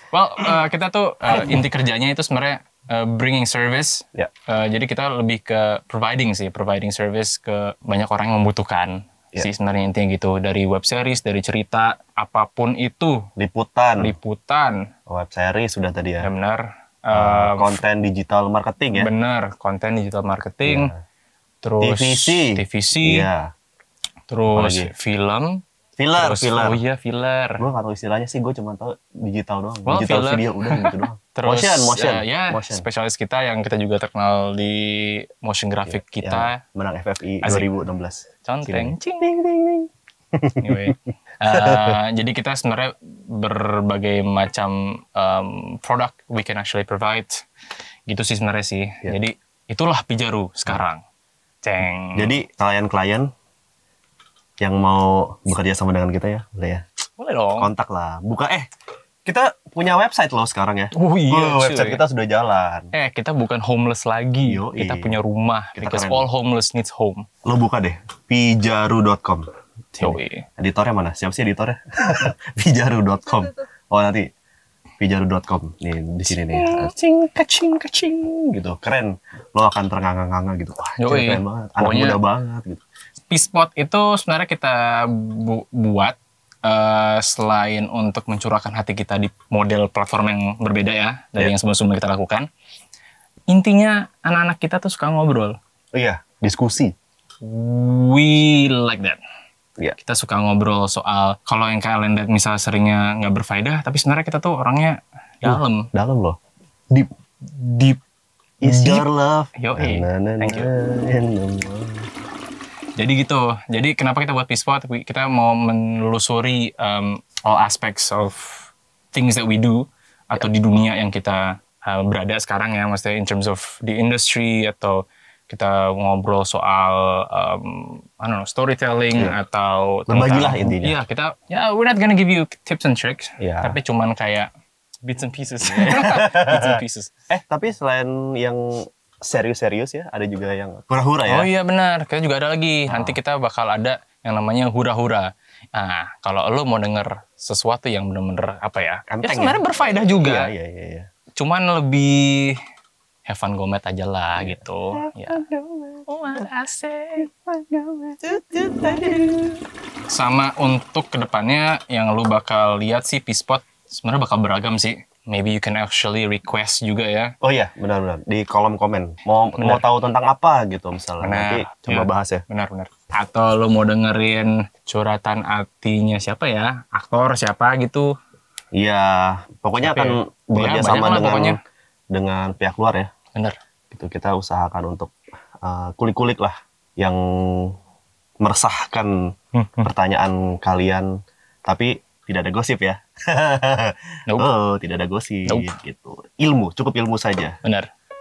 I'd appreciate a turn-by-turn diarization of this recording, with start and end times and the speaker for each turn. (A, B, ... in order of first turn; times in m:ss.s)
0:00.1-0:13.2 A
0:01.3-0:01.6 B
0:13.4-0:14.1 B
0:14.0-0:14.8 A
0:15.1-0:16.3 B
0:16.2-0:17.8 A
0:17.1-0:19.1 B
0:19.0-0:20.9 A
0:20.6-0:21.0 B
0:21.6-0:23.3 A
0:21.8-0:23.5 B
0:24.3-0:25.6 A
0:24.5-0:24.9 B
0:26.0-0:26.8 B
0:26.2-0:27.6 A
0:27.6-0:32.8 B
0:29.9-0:36.6 A
0:35.9-0:40.9 B
0:38.4-0:39.3 A
0:40.6-0:47.4 A
0:41.5-0:41.9 B
0:48.1-0:51.0 A
0:51.6-0:52.4 A
0:52.2-0:53.3 B
0:54.6-0:56.8 B
0:57.2-0:57.7 A
0:57.6-0:58.7 B
0:59.2-1:02.9 B
1:00.9-1:02.0 A
1:02.9-1:07.2 A
1:04.4-1:05.2 B
1:05.8-1:06.3 B
1:07.4-1:14.3 B
1:10.0-1:10.4 A
1:15.0-1:22.8 B
1:16.5-1:16.9 A
1:21.0-1:22.2 A
1:23.3-1:32.5 A
1:33.5-1:35.6 A
1:36.0-1:36.9 B
1:37.4-1:39.2 A
1:40.0-1:45.9 A
1:45.4-1:46.4 B
1:47.4-1:48.0 A
1:48.6-1:49.0 A
1:48.6-1:52.1 B
1:49.6-1:50.7 A
1:53.0-2:14.5 A
2:10.1-2:11.0 B
2:13.4-2:13.8 B
2:15.0-2:17.1 A
2:15.6-2:16.7 B
2:17.3-2:21.5 B
2:21.3-2:30.5 A
2:22.9-2:23.2 B
2:29.1-2:31.1 B
2:31.4-2:32.6 A
2:33.3-2:35.4 A
2:34.4-2:36.5 B
2:36.1-2:37.3 A
2:37.2-2:39.6 B
2:38.8-2:39.4 A
2:40.1-2:47.4 A
2:47.4-2:52.4 B
2:49.6-2:49.8 A
2:51.2-2:58.1 A
2:58.8-3:01.6 B
2:59.8-3:01.6 A
3:02.1-3:03.1 B
3:03.9-3:07.8 B
3:08.4-3:11.1 B
3:09.6-3:09.9 A
3:11.7-3:17.6 B
3:15.5-3:15.7 A